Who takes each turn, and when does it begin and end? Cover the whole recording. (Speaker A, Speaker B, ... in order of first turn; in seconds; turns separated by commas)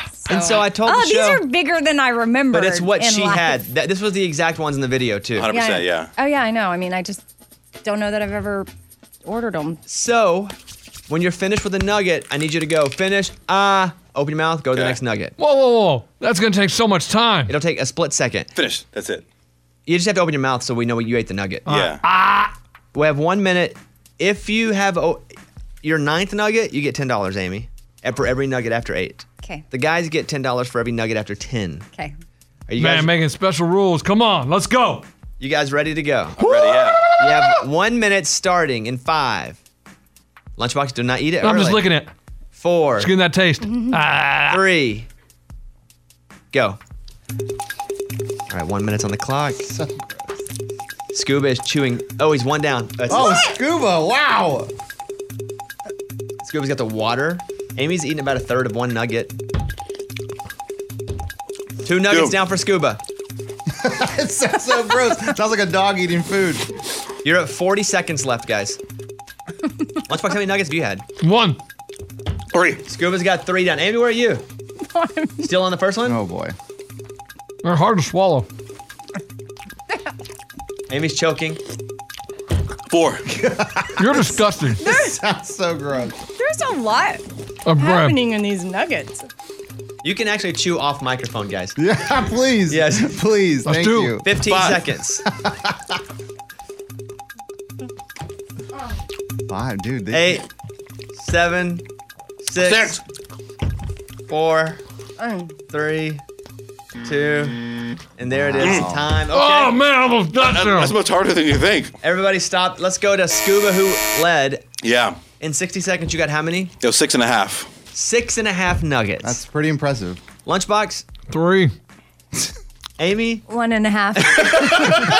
Speaker A: 0.2-3.6, Speaker B: 0.3-1.4, Speaker B: 2.5-5.5, Speaker C: 5.3-6.1, Speaker A: 5.5-7.2, Speaker A: 7.8-8.7, Speaker A: 9.2-9.8, Speaker B: 9.9-10.5, Speaker B: 11.1-15.3, Speaker D: 15.4-17.5, Speaker B: 17.5-18.5, Speaker C: 18.6-19.2, Speaker B: 19.9-21.7, Speaker C: 21.7-22.0, Speaker D: 21.7-22.5, Speaker B: 22.9-25.2, Speaker B: 25.8-31.9, Speaker B: 32.7-33.1, Speaker D: 32.8-35.0, Speaker B: 35.4-36.5, Speaker C: 36.4-37.1, Speaker D: 36.4-37.6, Speaker B: 37.2-39.6, Speaker B: 40.6-41.9, Speaker D: 41.4-42.1, Speaker B: 42.5-43.1, Speaker D: 43.0-44.6, Speaker A: 43.6-44.0, Speaker B: 44.5-45.1, Speaker B: 46.5-46.8, Speaker B: 48.5-49.7, Speaker E: 49.7-50.2, Speaker B: 51.1-53.5, Speaker E: 53.1-54.7, Speaker B: 56.4-59.3, Speaker B: 61.8-63.0, Speaker C: 62.1-62.4, Speaker E: 63.7-66.7, Speaker B: 67.2-68.8, Speaker B: 70.1-71.0, Speaker D: 71.2-71.6, Speaker B: 72.8-74.4, Speaker A: 74.9-75.4, Speaker B: 75.4-76.2, Speaker E: 76.0-76.5, Speaker D: 77.6-78.5, Speaker B: 80.9-81.6, Speaker C: 82.9-83.3, Speaker E: 83.3-84.3, Speaker D: 84.0-84.8, Speaker A: 84.8-85.2, Speaker E: 84.8-86.2, Speaker A: 86.4-87.2, Speaker D: 87.7-88.2, Speaker A: 87.8-89.3, Speaker B: 90.0-91.8, Speaker E: 91.8-94.3, Speaker B: 92.7-93.2, Speaker D: 93.6-94.2, Speaker B: 94.2-95.2, Speaker C: 94.4-94.8, Speaker E: 95.3-95.9, Speaker E: 99.5-100.4, Speaker B: 100.1-100.5, Speaker B: 101.1-101.8, Speaker B: 102.4-103.0, Speaker C: 102.7-103.0, Speaker B: 104.3-104.8, Speaker A: 105.2-105.5, Speaker B: 105.7-106.2, Speaker B: 107.0-107.6, Speaker B: 108.2-109.8, Speaker E: 108.3-109.0, Speaker D: 109.3-111.0, Speaker C: 110.4-111.9, Speaker B: 112.0-114.6, Speaker C: 114.8-115.2, Speaker B: 115.4-116.7, Speaker C: 116.8-117.7, Speaker B: 117.9-119.4, Speaker E: 119.2-120.2, Speaker B: 120.5-121.0, Speaker D: 121.3-121.7, Speaker B: 123.0-123.4, Speaker A: 123.5-125.0, Speaker B: 124.2-124.7